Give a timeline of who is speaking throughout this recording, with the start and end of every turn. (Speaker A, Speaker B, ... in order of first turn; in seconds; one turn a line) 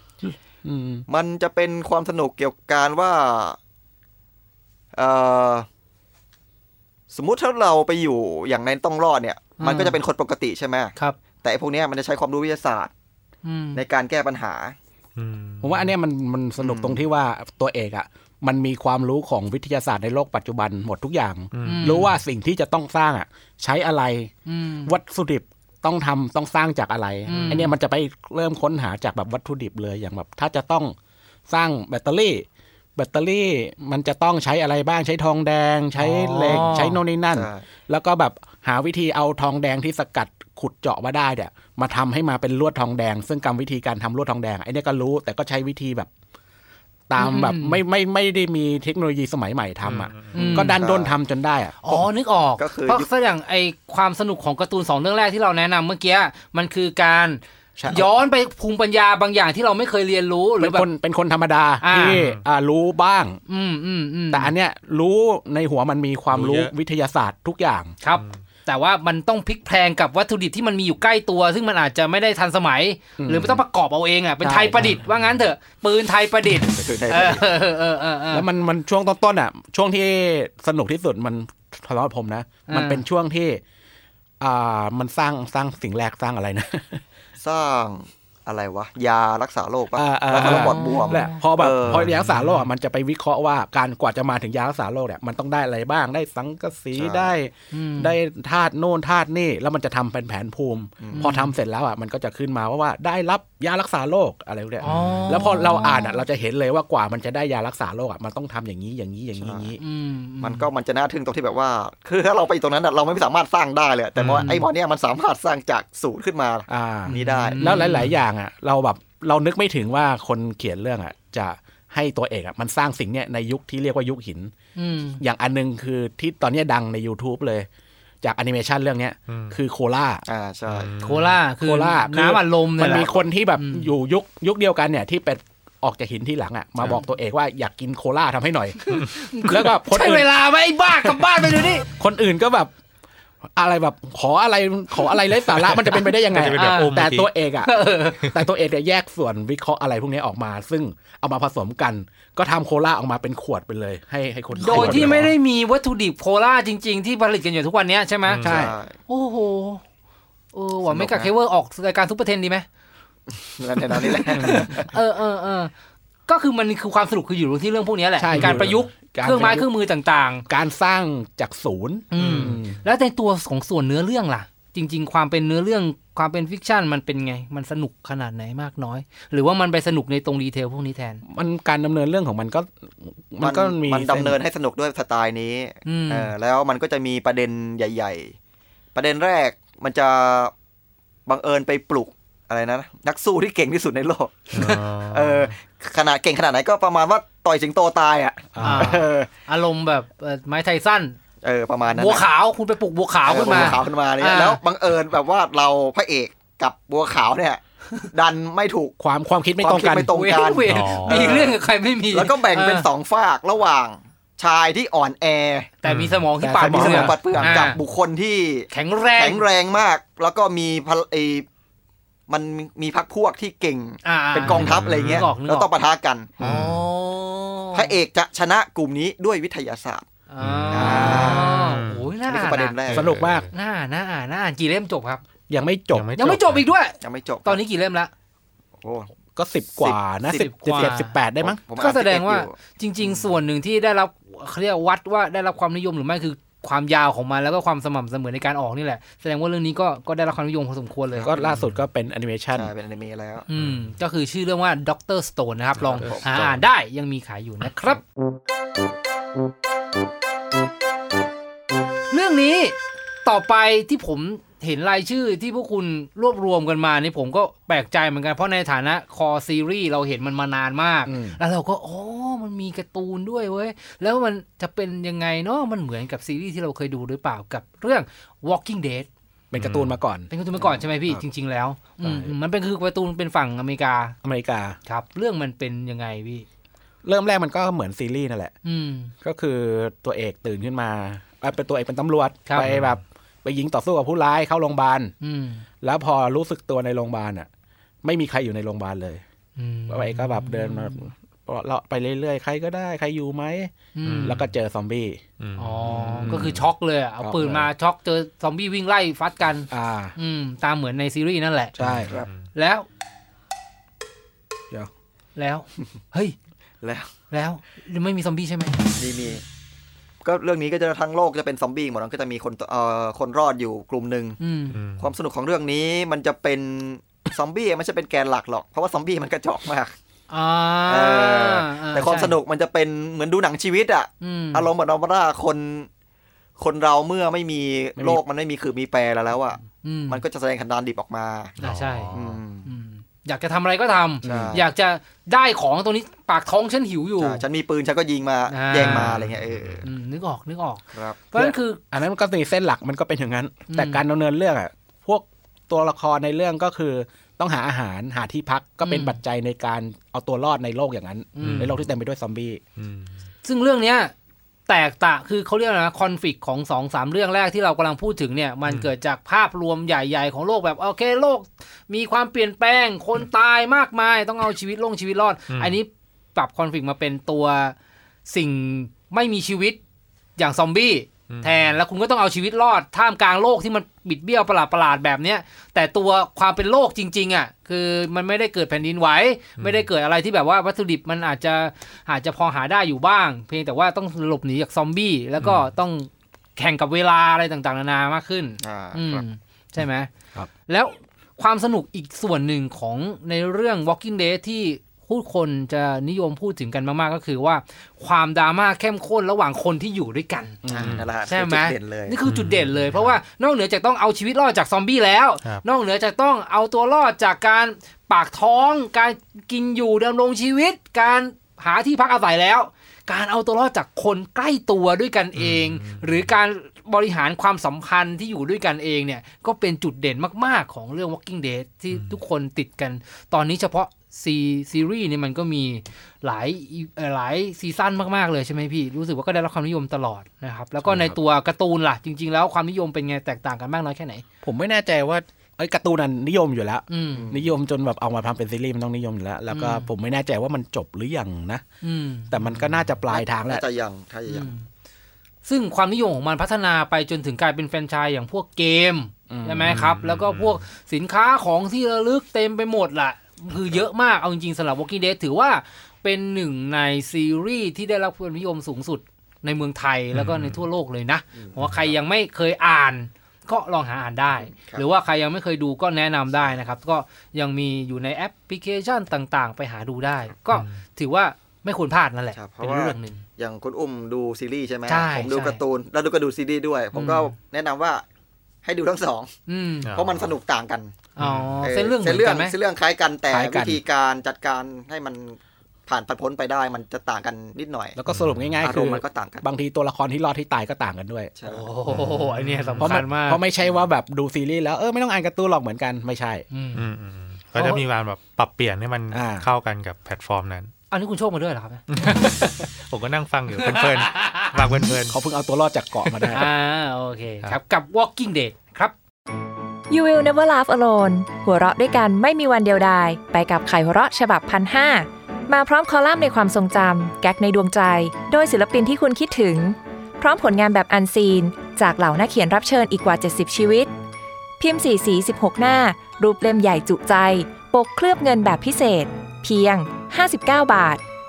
Speaker A: 0.2-1.0
Speaker B: 1.1-3.6
Speaker B: 5.0-5.7
Speaker B: 7.1-12.9
Speaker C: 9.6-10.0
Speaker C: 13.4-13.8
Speaker B: 13.7-14.7
Speaker D: 15.2-15.9
Speaker A: 15.6-24.3
Speaker B: 16.6-17.0
Speaker D: 21.5-22.1
Speaker C: 21.6-22.1
Speaker C: 24.4-24.9
Speaker A: 24.8-30.9
Speaker C: 27.3-27.7
Speaker D: 27.3-27.6
Speaker A: 31.5-46.1
Speaker C: 36.0-37.0
Speaker B: 37.3-37.6
Speaker A: 47.1-52.0
Speaker C: 47.2-47.8
Speaker D: 49.8-50.4
Speaker C: 50.3-50.8
Speaker B: 50.4-51.1
Speaker C: 51.8-60.9
Speaker B: 52.6-53.1
Speaker A: 57.8-58.1
Speaker A: 60.6-63.4
Speaker C: 61.8-62.2
Speaker D: 62.0-62.4
Speaker C: 63.5-64.5
Speaker A: 64.3-67.9
Speaker D: 66.3-66.7
Speaker C: 68.0-78.5
Speaker D: 68.2-68.4
Speaker A: 73.2-73.6
Speaker A: 74.4-75.0
Speaker D: 74.9-75.4
Speaker B: 76.8-77.4
Speaker A: 78.3-83.6
Speaker C: 82.7-83.0
Speaker A: 84.4-87.0
Speaker B: 87.4-92.1
Speaker A: 89.9-109.8
Speaker C: 90.4-91.4
Speaker D: 91.8-92.4
Speaker B: 96.9-97.3
Speaker C: 97.7-98.1
Speaker B: 101.0-101.3
Speaker C: 101.1-101.5
Speaker C: 104.8-106.2
Speaker D: 104.8-105.2
Speaker B: 109.4-109.7
Speaker C: 109.8-110.7
Speaker B: 110.4-117.9
Speaker D: 114.2-114.5
Speaker C: 114.3-114.7
Speaker A: 116.7-124.5
Speaker C: 117.1-118.1
Speaker C: 124.8-125.2
Speaker A: 125.2-127.7
Speaker A: 128.2-130.2
Speaker D: 129.3-129.6
Speaker B: 130.3-130.9
Speaker D: 130.7-131.4
Speaker C: 131.0-133.9
Speaker A: 131.6-140.4
Speaker C: 138.8-141.8
Speaker A: 141.0-142.7
Speaker A: 143.5-155.3
Speaker D: 145.8-147.3
Speaker C: 146.5-147.0
Speaker C: 147.6-148.3
Speaker C: 154.6-158.4
Speaker B: 154.7-155.2
Speaker D: 158.2-158.5
Speaker A: 158.4-158.8
Speaker B: 158.4-158.9
Speaker C: 159.1-159.8
Speaker C: 160.5-162.7
Speaker B: 160.8-161.3
Speaker B: 163.3-164.9
Speaker C: 164.1-165.7
Speaker A: 164.4-164.6
Speaker C: 166.3-170.4
Speaker A: 168.2-169.7
Speaker D: 168.3-168.7
Speaker A: 170.5-172.8
Speaker C: 172.1-181.2
Speaker D: 172.2-172.6
Speaker A: 181.2-184.4
Speaker B: 183.4-188.3
Speaker C: 185.8-186.3
Speaker B: 188.9-190.5
Speaker B: 191.3-199.3
Speaker D: 194.5-195.5
Speaker A: 198.5-199.0
Speaker C: 198.6-201.2
Speaker B: 201.4-202.2
Speaker C: 201.9-204.6
Speaker B: 203.2-207.6
Speaker B: 208.1-208.9
Speaker A: 209.0-210.1
Speaker B: 209.6-211.6
Speaker C: 210.1-212.9
Speaker D: 210.7-211.4
Speaker B: 212.1-215.7
Speaker C: 215.8-217.8
Speaker D: 215.8-216.2
Speaker A: 216.4-217.3
Speaker B: 216.6-221.5
Speaker D: 217.3-217.7
Speaker C: 218.7-219.4
Speaker B: 222.3-226.3
Speaker C: 224.0-225.7
Speaker D: 224.5-225.3
Speaker D: 226.4-226.8
Speaker C: 226.4-227.9
Speaker B: 227.7-230.0
Speaker C: 230.3-232.8
Speaker D: 230.4-232.1
Speaker B: 230.7-231.6
Speaker A: 230.8-231.4
Speaker B: 232.3-233.1
Speaker D: 232.9-233.5
Speaker A: 232.9-233.5
Speaker C: 233.5-235.2
Speaker A: 235.5-236.4
Speaker D: 235.9-236.6
Speaker C: 236.2-238.1
Speaker B: 237.0-237.6
Speaker B: 238.8-239.1
Speaker A: 239.3-241.6
Speaker B: 239.8-243.3
Speaker C: 240.4-241.1
Speaker C: 241.8-251.4
Speaker A: 251.2-252.7
Speaker D: 251.5-251.8
Speaker B: 252.5-253.4
Speaker C: 253.5-258.0
Speaker D: 253.6-253.9
Speaker B: 255.9-256.2
Speaker D: 256.0-256.5
Speaker C: 262.1-279.1
Speaker A: 271.1-271.4
Speaker A: 279.5-281.2
Speaker D: 279.6-279.9
Speaker C: 280.3-284.1
Speaker A: 282.0-282.3
Speaker A: 284.2-284.8
Speaker C: 284.9-286.4
Speaker A: 287.0-288.5
Speaker C: 288.6-289.1
Speaker A: 289.2-295.1
Speaker D: 292.6-293.0
Speaker C: 295.2-295.6
Speaker A: 295.8-297.5
Speaker A: 298.0-299.2
Speaker C: 299.6-301.1
Speaker A: 299.9-303.7
Speaker C: 303.9-304.4
Speaker D: 304.0-304.5
Speaker A: 304.2-305.2
Speaker D: 305.4-306.6
Speaker C: 305.6-311.7
Speaker A: 305.9-306.6
Speaker A: 307.2-307.7
Speaker A: 309.7-310.1
Speaker A: 311.8-312.1
Speaker D: 311.8-312.4
Speaker C: 312.5-312.9
Speaker C: 315.4-316.3
Speaker B: 316.8-317.1
Speaker C: 317.3-318.8
Speaker B: 319.0-319.4
Speaker B: 320.2-324.4
Speaker C: 324.4-324.8
Speaker D: 324.7-325.1
Speaker B: 325.0-329.9
Speaker C: 330.3-332.4
Speaker B: 330.9-335.9
Speaker C: 334.2-334.7
Speaker B: 336.6-341.5
Speaker A: 338.0-338.2
Speaker C: 339.8-340.2
Speaker D: 341.6-342.4
Speaker C: 341.6-347.4
Speaker B: 342.1-342.7
Speaker A: 344.2-344.6
Speaker B: 344.2-344.6
Speaker B: 347.2-349.9
Speaker C: 348.5-349.2
Speaker D: 348.8-349.8
Speaker C: 349.8-351.8
Speaker B: 350.9-351.2
Speaker A: 351.3-362.6
Speaker C: 353.7-354.0
Speaker C: 358.8-359.2
Speaker C: 361.4-361.7
Speaker D: 361.4-361.8
Speaker D: 362.8-363.1
Speaker C: 363.4-364.1
Speaker C: 364.7-377.7
Speaker D: 375.5-375.7
Speaker C: 378.3-379.8
Speaker C: 380.4-400.1
Speaker D: 381.3-381.7
Speaker D: 389.6-389.9
Speaker D: 395.4-395.7
Speaker B: 398.6-399.2
Speaker C: 400.7-410.6
Speaker A: 410.6-410.9
Speaker B: 410.7-412.2
Speaker D: 410.8-411.1
Speaker C: 411.2-444.2
Speaker D: 412.2-413.1
Speaker D: 425.4-426.3
Speaker A: 440.8-441.1
Speaker A: 444.4-451.6
Speaker C: 446.9-447.3
Speaker B: 447.1-447.5
Speaker C: 449.5-449.9
Speaker C: 451.8-452.3
Speaker A: 452.3-453.6
Speaker B: 453.1-454.5
Speaker C: 454.3-454.6
Speaker C: 455.4-483.2
Speaker A: 459.3-459.8
Speaker D: 459.6-460.6
Speaker D: 470.1-470.6
Speaker B: 474.5-474.8
Speaker D: 480.5-480.8
Speaker B: 482.4-488.0
Speaker C: 484.9-485.6
Speaker C: 486.9-487.3
Speaker B: 488.6-489.3
Speaker C: 489.5-489.9
Speaker D: 489.8-490.3
Speaker B: 489.9-490.9
Speaker C: 491.1-492.6
Speaker D: 491.2-491.6
Speaker B: 491.6-498.0
Speaker A: 493.3-493.8
Speaker A: 497.9-501.3
Speaker D: 498.1-498.6
Speaker B: 498.6-499.4
Speaker B: 501.3-501.6
Speaker C: 501.4-503.4
Speaker D: 501.9-503.0
Speaker A: 502.8-506.4
Speaker C: 506.5-506.8
Speaker D: 506.7-510.7
Speaker C: 507.5-507.8
Speaker A: 509.1-509.5
Speaker C: 510.9-512.5
Speaker D: 511.9-515.1
Speaker C: 513.5-514.5
Speaker A: 515.1-516.5
Speaker C: 516.3-518.9
Speaker E: 519.9-533.9
Speaker E: 534.6-541.0